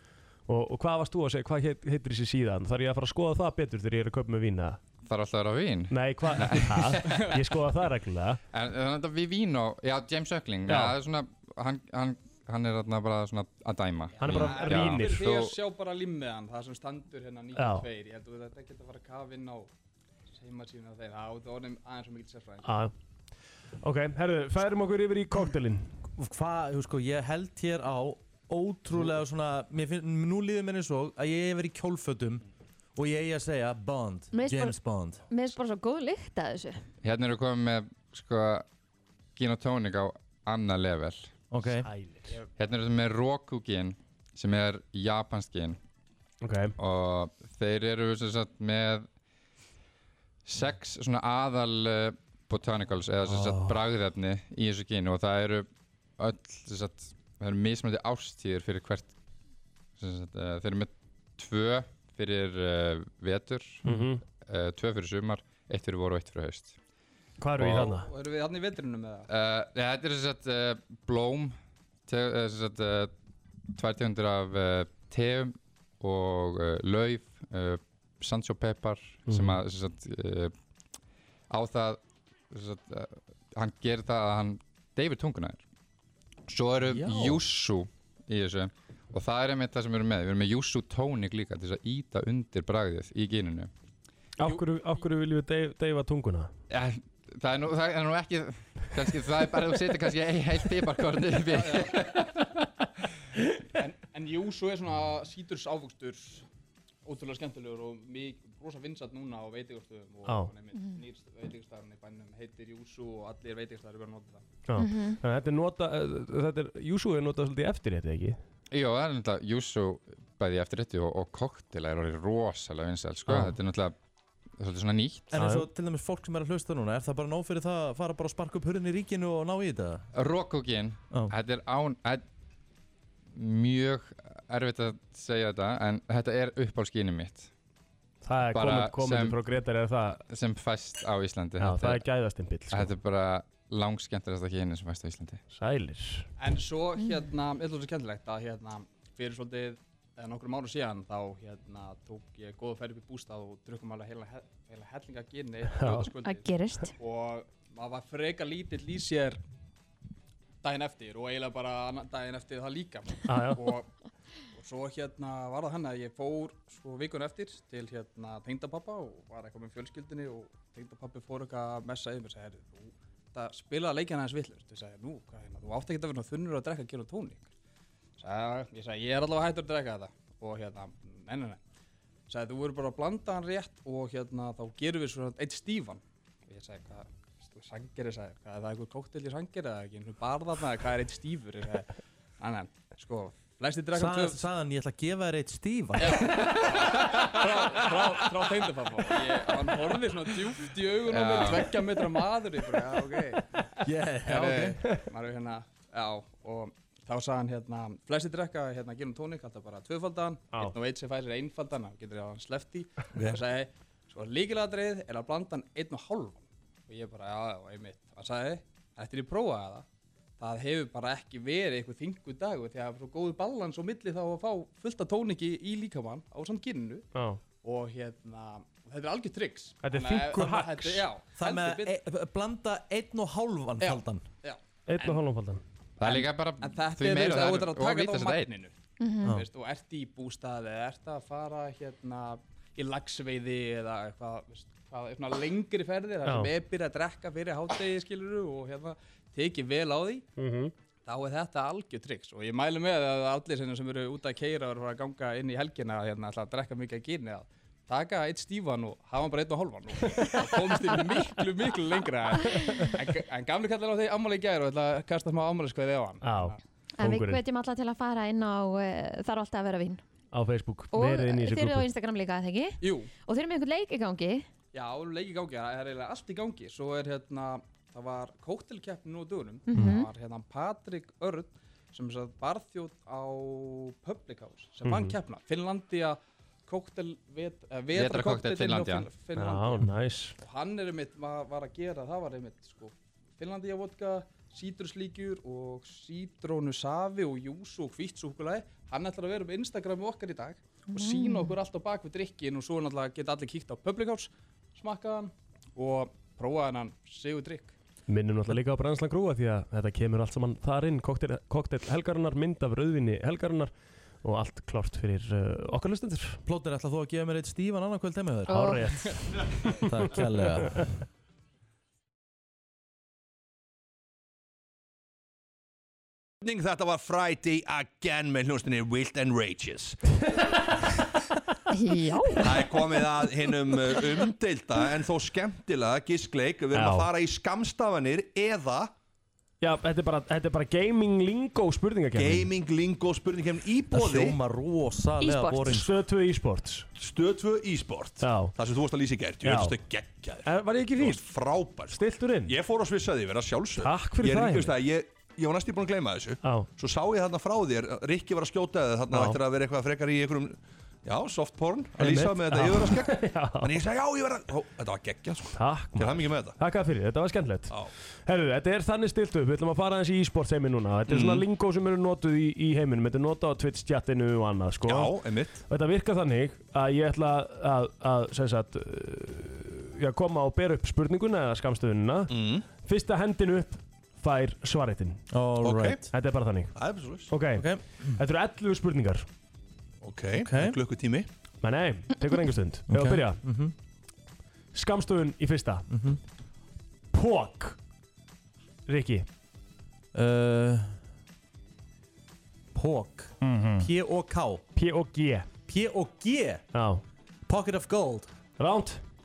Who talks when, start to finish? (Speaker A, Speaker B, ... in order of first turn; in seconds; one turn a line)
Speaker A: 0.5-4.8
Speaker B: 5.0-7.2
Speaker A: 5.9-8.4
Speaker B: 8.5-15.6
Speaker A: 10.7-11.0
Speaker C: 14.1-19.7
Speaker A: 14.2-15.3
Speaker A: 17.6-17.9
Speaker C: 20.4-22.9
Speaker A: 22.6-22.9
Speaker A: 23.8-25.9
Speaker D: 26.2-32.4
Speaker D: 32.9-35.2
Speaker E: 34.3-36.8
Speaker B: 37.0-38.6
Speaker B: 39.4-41.3
Speaker D: 41.5-41.9
Speaker A: 41.8-42.4
Speaker B: 42.6-45.8
Speaker A: 46.4-46.7
Speaker B: 46.8-49.1
Speaker B: 50.4-55.6
Speaker D: 53.3-53.8
Speaker B: 56.2-59.1
Speaker B: 60.0-63.9
Speaker A: 63.8-64.2
Speaker B: 64.4-66.8
Speaker A: 67.4-68.1
Speaker B: 67.6-67.9
Speaker C: 67.7-69.3
Speaker B: 69.3-71.5
Speaker B: 72.1-73.1
Speaker B: 73.8-80.5
Speaker A: 79.3-79.6
Speaker B: 81.5-85.6
Speaker B: 86.5-93.7
Speaker D: 86.9-87.4
Speaker A: 94.4-96.5
Speaker C: 94.4-95.0
Speaker B: 96.7-102.3
Speaker C: 101.5-102.3
Speaker C: 103.8-106.5
Speaker C: 107.0-114.4
Speaker A: 114.7-118.4
Speaker E: 114.8-115.2
Speaker B: 118.7-124.0
Speaker B: 124.6-125.3
Speaker D: 125.3-130.1
Speaker A: 125.3-125.7
Speaker B: 130.1-132.2
Speaker B: 133.3-137.5
Speaker A: 138.2-140.2
Speaker B: 138.4-139.4
Speaker B: 140.3-142.1
Speaker A: 141.6-142.9
Speaker B: 142.7-145.4
Speaker A: 145.5-146.3
Speaker C: 146.4-159.4
Speaker A: 155.8-156.1
Speaker E: 156.2-156.9
Speaker C: 160.6-163.9
Speaker A: 163.3-163.6
Speaker C: 164.5-177.5
Speaker C: 178.2-181.6
Speaker C: 182.3-194.4
Speaker D: 193.9-196.3
Speaker C: 196.0-203.4
Speaker B: 201.1-201.7
Speaker D: 203.8-204.8
Speaker C: 204.2-219.8
Speaker C: 220.4-227.0
Speaker A: 227.1-227.4
Speaker C: 227.6-232.0
Speaker A: 229.8-231.0
Speaker D: 231.4-234.2
Speaker C: 233.8-235.2
Speaker A: 234.9-235.6
Speaker B: 236.0-238.5
Speaker C: 236.0-250.2
Speaker E: 239.0-239.3
Speaker A: 246.2-246.5
Speaker A: 250.4-250.7
Speaker C: 251.1-266.6
Speaker A: 260.1-260.4
Speaker A: 262.4-262.9
Speaker A: 266.2-267.4
Speaker E: 267.0-270.0
Speaker A: 270.3-271.9
Speaker E: 270.9-274.4
Speaker C: 272.8-273.1
Speaker C: 274.7-307.7
Speaker E: 279.7-280.1
Speaker A: 284.8-285.1
Speaker B: 287.9-289.1
Speaker A: 289.4-290.3
Speaker E: 300.9-301.5
Speaker A: 308.1-313.7
Speaker A: 314.2-316.4
Speaker D: 316.4-318.9
Speaker A: 318.5-319.9
Speaker D: 319.7-320.9
Speaker F: 326.4-330.0
Speaker E: 331.7-332.8
Speaker F: 332.4-338.9
Speaker A: 336.7-337.1
Speaker A: 339.6-342.5
Speaker F: 342.1-344.4
Speaker D: 343.9-345.9
Speaker E: 345.2-345.7
Speaker A: 345.6-346.9
Speaker F: 346.9-366.6
Speaker A: 348.2-348.5
Speaker A: 349.4-349.8
Speaker A: 350.4-351.2
Speaker A: 351.9-352.6
Speaker A: 353.8-354.8
Speaker A: 356.4-356.7
Speaker A: 359.1-359.4
Speaker A: 362.0-363.8
Speaker A: 365.6-385.2
Speaker F: 371.1-371.4
Speaker F: 374.8-375.6
Speaker F: 382.3-382.7
Speaker D: 385.3-386.1
Speaker F: 385.6-386.0
Speaker A: 386.1-386.7
Speaker F: 386.7-387.3
Speaker A: 387.3-389.2
Speaker D: 387.5-388.2
Speaker F: 390.0-391.3
Speaker D: 390.3-390.8
Speaker A: 391.6-393.4
Speaker D: 392.9-393.7
Speaker A: 394.7-395.9
Speaker D: 395.9-396.2
Speaker A: 397.1-397.8
Speaker A: 398.9-399.2
Speaker D: 400.1-401.0
Speaker D: 402.7-404.6
Speaker A: 403.4-403.9
Speaker A: 404.8-405.5
Speaker D: 405.7-406.6
Speaker A: 406.7-407.0
Speaker D: 407.5-408.3
Speaker A: 408.6-409.0